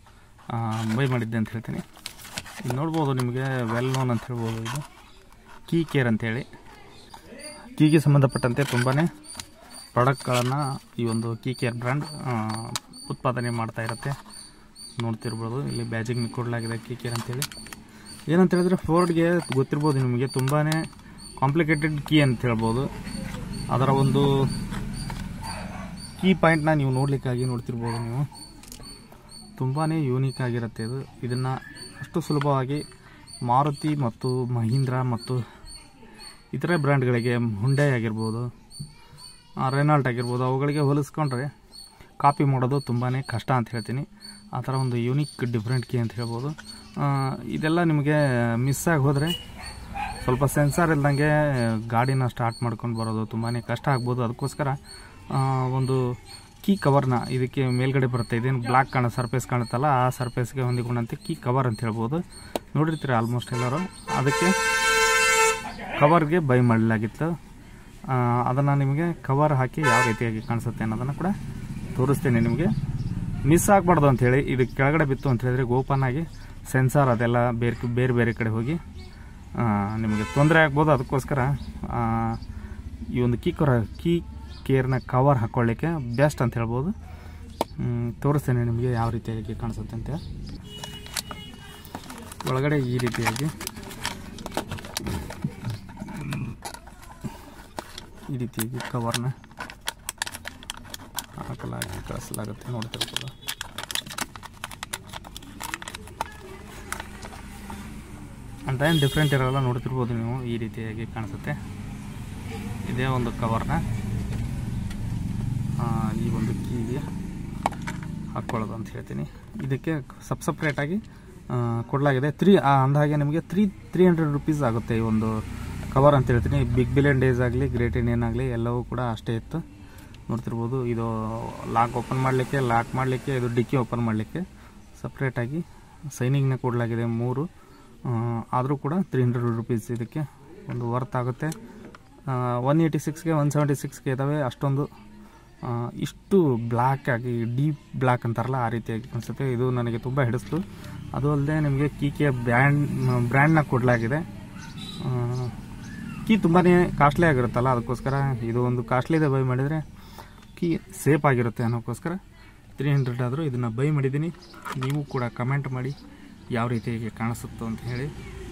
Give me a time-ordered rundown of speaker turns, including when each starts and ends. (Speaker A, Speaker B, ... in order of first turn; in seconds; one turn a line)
Speaker A: 0.5-1.8
Speaker A: 2.6-4.8
Speaker A: 5.7-6.5
Speaker A: 7.7-9.1
Speaker A: 9.9-14.2
Speaker A: 15.0-17.5
Speaker A: 18.3-20.8
Speaker A: 21.4-22.9
Speaker A: 23.7-24.5
Speaker A: 26.2-28.3
Speaker A: 29.6-32.8
Speaker A: 33.5-35.4
Speaker A: 36.5-38.5
Speaker A: 39.6-41.5
Speaker A: 42.2-49.3
Speaker A: 50.2-54.8
Speaker A: 55.3-62.2
Speaker A: 62.7-64.5
Speaker A: 65.9-67.3
Speaker A: 68.0-71.3
Speaker A: 71.9-72.7
Speaker A: 73.4-78.8
Speaker A: 79.5-82.4
Speaker A: 83.1-86.9
Speaker A: 87.8-90.2
Speaker A: 92.4-93.5
Speaker A: 98.3-99.3
Speaker A: 101.4-103.3
Speaker A: 108.7-111.6
Speaker A: 112.8-113.8
Speaker A: 115.8-117.0
Speaker A: 118.3-129.6
Speaker A: 130.3-134.4
Speaker A: 135.0-137.5
Speaker A: 138.0-141.5
Speaker A: 142.3-144.9
Speaker A: 145.6-150.6
Speaker A: 151.1-154.2
Speaker A: 155.0-155.6
Speaker A: 156.2-159.8
Speaker A: 160.5-162.2
Speaker A: 162.8-166.0
Speaker A: 166.5-168.1